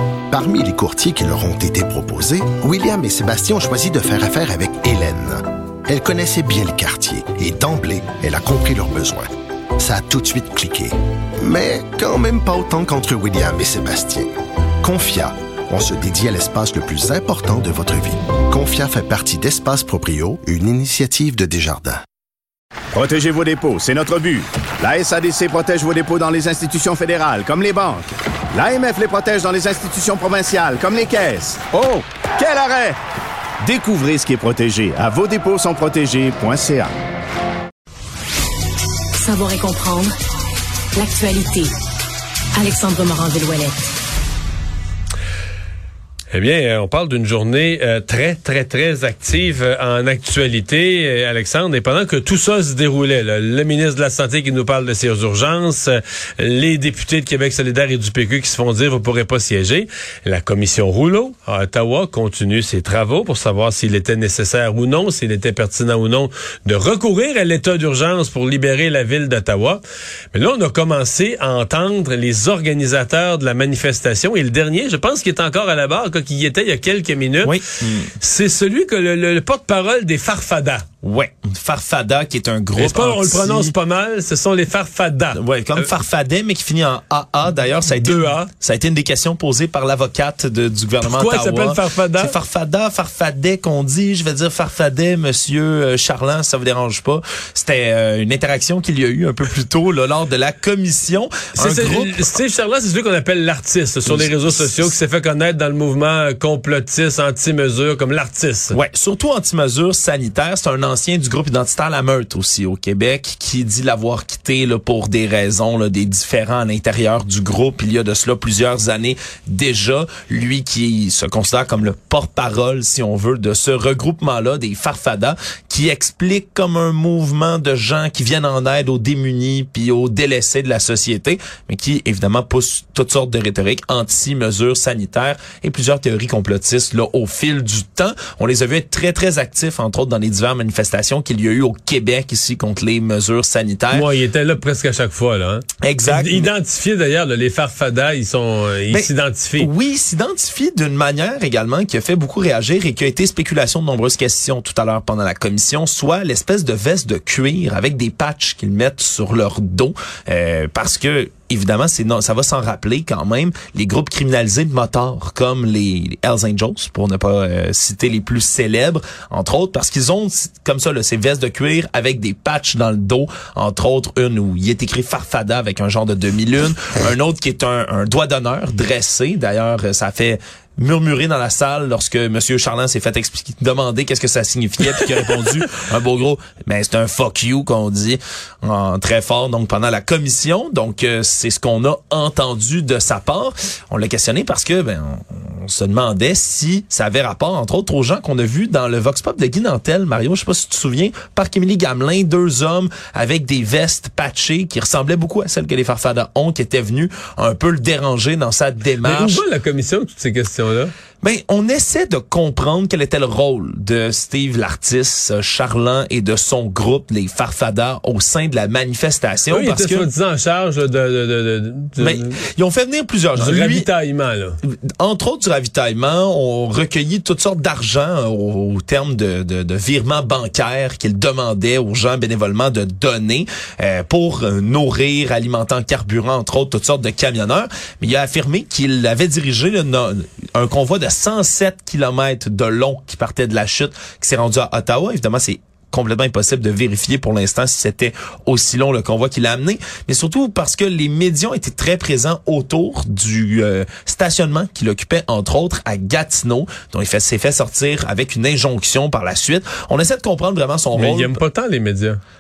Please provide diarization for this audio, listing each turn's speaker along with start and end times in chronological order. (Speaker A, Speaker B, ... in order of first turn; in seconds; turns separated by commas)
Speaker A: 0.3-9.3, Speaker A: 9.8-14.3, Speaker A: 14.8-22.0, Speaker B: 22.9-33.0, Speaker B: 33.6-36.9, Speaker C: 39.2-40.1, Speaker C: 41.0-41.7, Speaker C: 42.6-43.9, Speaker D: 46.3-69.8, Speaker D: 70.3-77.6, Speaker E: 77.4-78.1, Speaker D: 78.2-80.8, Speaker E: 81.0-83.7, Speaker D: 82.8-85.9, Speaker E: 85.3-102.4, Speaker D: 88.0-88.5, Speaker D: 91.0-92.3, Speaker D: 101.6-108.8, Speaker E: 104.1-105.0, Speaker E: 108.7-144.1, Speaker D: 143.9-149.7, Speaker E: 145.8-146.5, Speaker E: 148.9-209.4, Speaker D: 209.0-210.9, Speaker E: 211.2-220.1, Speaker D: 219.5-222.4, Speaker E: 222.0-223.9, Speaker D: 223.3-224.6, Speaker E: 224.6-261.4, Speaker D: 260.9-262.2